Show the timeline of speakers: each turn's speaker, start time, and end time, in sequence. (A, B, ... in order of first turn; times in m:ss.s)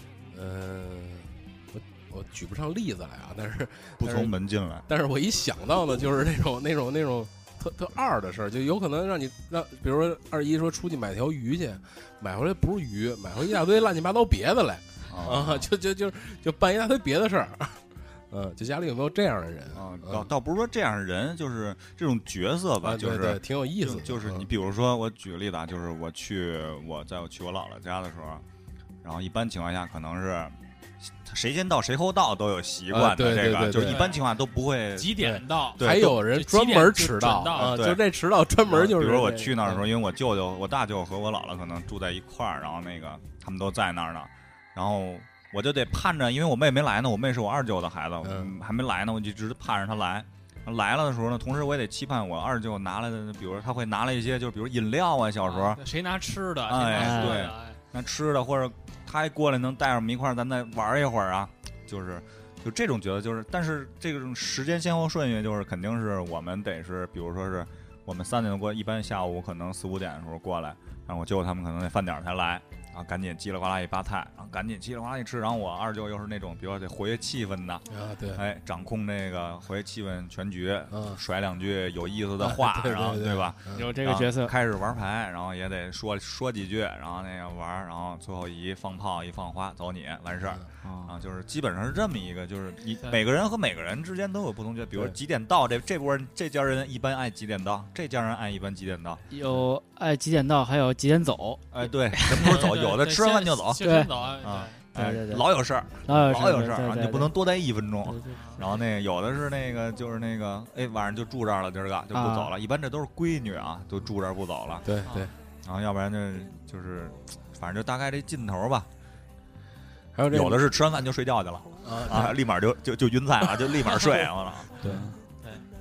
0:00.3-0:04.4 A
0:04.0-0:04.9 B
0:04.9-0:20.3 A
0:15.1-0:15.7 B
0:19.7-0:28.4 B
0:22.8-0:24.5 A
0:29.0-0:30.6 B
0:31.2-0:36.1 B
0:32.9-0:34.1 A
0:33.8-0:34.2 C
0:35.0-0:37.7 C
0:35.2-0:39.6 A
0:37.6-0:38.0 B
0:38.7-0:55.8 B
0:48.2-0:48.6 A
0:55.4-0:57.8 C
0:56.7-1:39.2 B
0:57.0-0:57.4 D
1:17.9-1:18.4 A
1:20.9-1:21.2 A
1:22.4-1:23.9 A
1:23.7-1:24.5 D
1:30.8-1:31.1 D
1:39.3-1:42.7 D
1:41.7-1:43.8 B
1:42.4-1:44.8 C
1:43.8-1:44.1 D
1:44.4-1:54.9 B
1:44.9-1:45.5 D
1:46.0-1:47.3 D
1:48.0-1:48.4 D
1:48.4-1:48.6 C
1:52.1-1:52.5 D
1:54.8-1:55.3 A
1:55.0-1:55.3 C
1:55.6-1:58.9 B
2:00.1-2:00.7 A
2:00.3-2:04.8 B
2:01.8-2:02.4 A
2:04.8-2:05.1 A
2:04.8-2:05.2 D